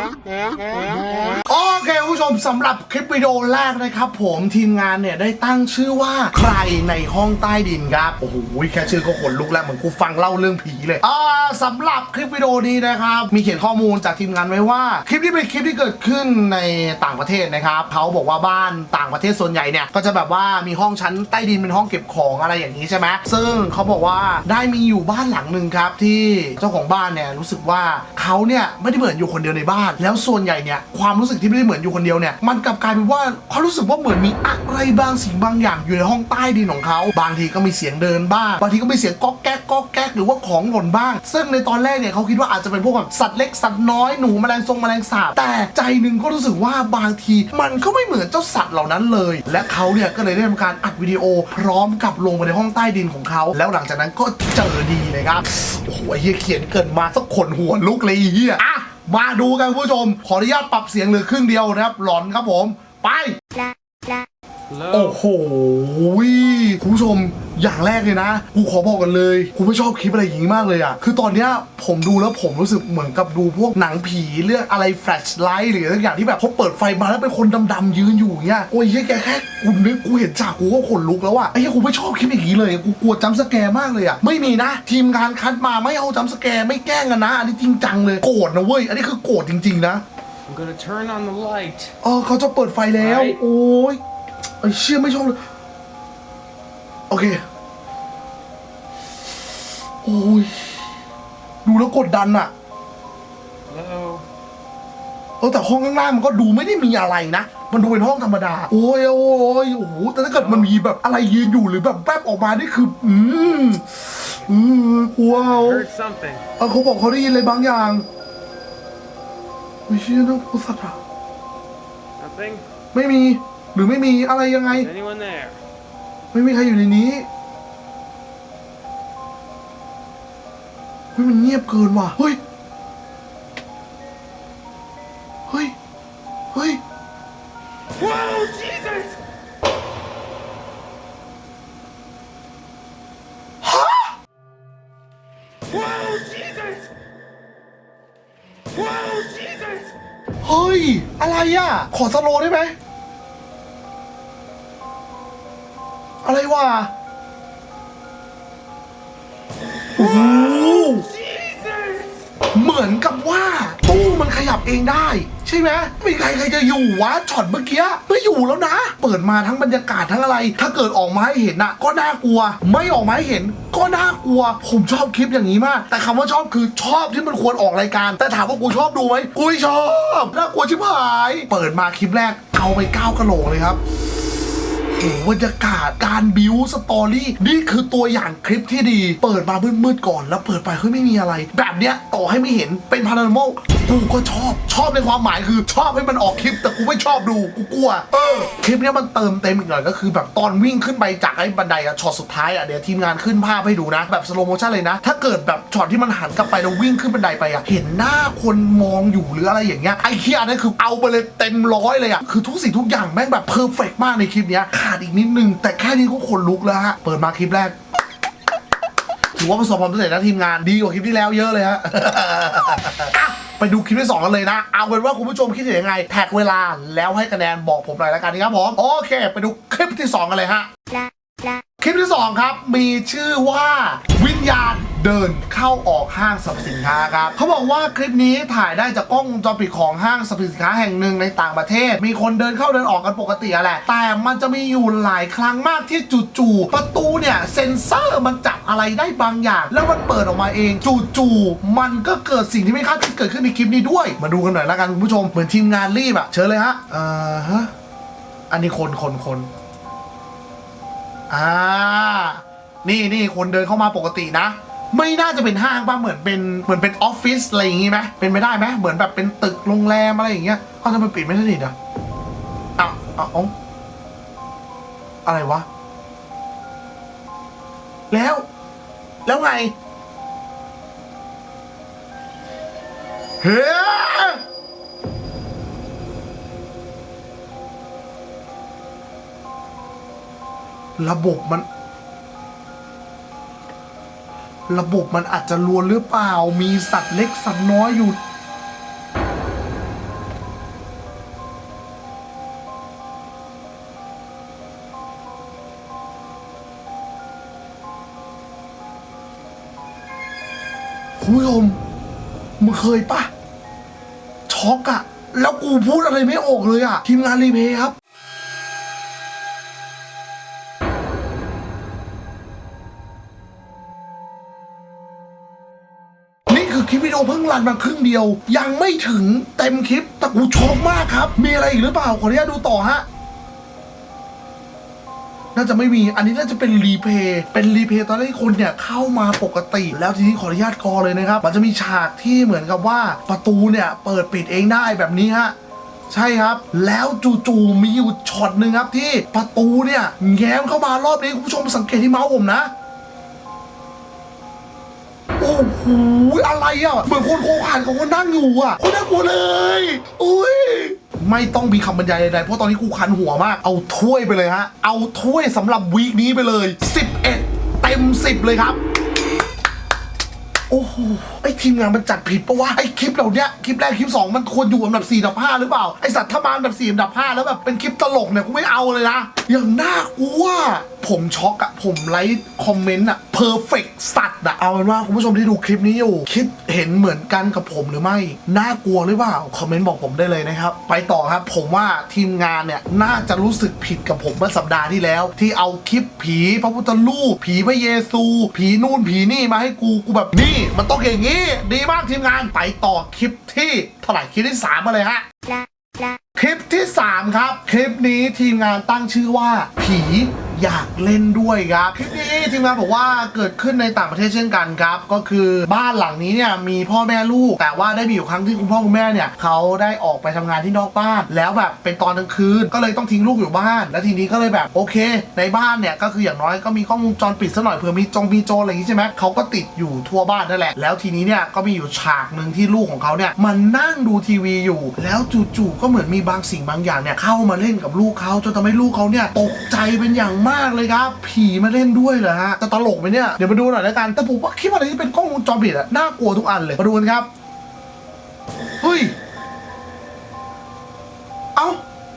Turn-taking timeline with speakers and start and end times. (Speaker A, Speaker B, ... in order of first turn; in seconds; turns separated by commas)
Speaker A: 1.4-63.4, Speaker B: 64.7-65.2, Speaker A: 64.9-90.0, Speaker B: 90.5-91.9, Speaker A: 92.0-94.0, Speaker B: 93.0-93.4, Speaker A: 94.6-95.4, Speaker A: 97.1-97.4, Speaker A: 100.0-100.8, Speaker A: 101.6-102.5, Speaker B: 103.7-104.2, Speaker A: 105.4-115.8, Speaker B: 110.4-110.7, Speaker B: 115.5-116.4, Speaker A: 116.6-118.0, Speaker A: 119.9-121.0, Speaker B: 122.2-122.6, Speaker A: 122.9-124.9, Speaker B: 124.7-125.6, Speaker A: 126.3-127.3, Speaker A: 131.1-132.4, Speaker A: 135.5-135.7, Speaker A: 136.5-136.8, Speaker B: 137.9-139.2, Speaker A: 143.6-144.1, Speaker B: 145.7-146.8, Speaker B: 148.7-149.9, Speaker A: 150.4-152.7, Speaker A: 156.2-156.9, Speaker A: 159.9-161.1, Speaker B: 159.9-162.1, Speaker A: 162.5-183.8, Speaker A: 184.9-217.8, Speaker A: 219.3-230.7, Speaker A: 231.8-257.7, Speaker A: 258.5-259.5, Speaker A: 261.3-271.7, Speaker A: 272.8-273.5, Speaker A: 275.2-275.6, Speaker A: 278.1-278.4, Speaker A: 279.2-279.7, Speaker A: 283.4-284.4, Speaker A: 291.0-291.6, Speaker A: 294.7-298.2, Speaker A: 311.2-311.8, Speaker A: 312.6-313.3, Speaker A: 314.5-317.9, Speaker A: 326.5-333.0, Speaker A: 335.5-345.5, Speaker A: 346.1-352.7, Speaker A: 355.4-368.8, Speaker A: 370.7-405.2, Speaker A: 406.4-447.3, Speaker A: 448.8-449.1, Speaker A: 451.6-451.8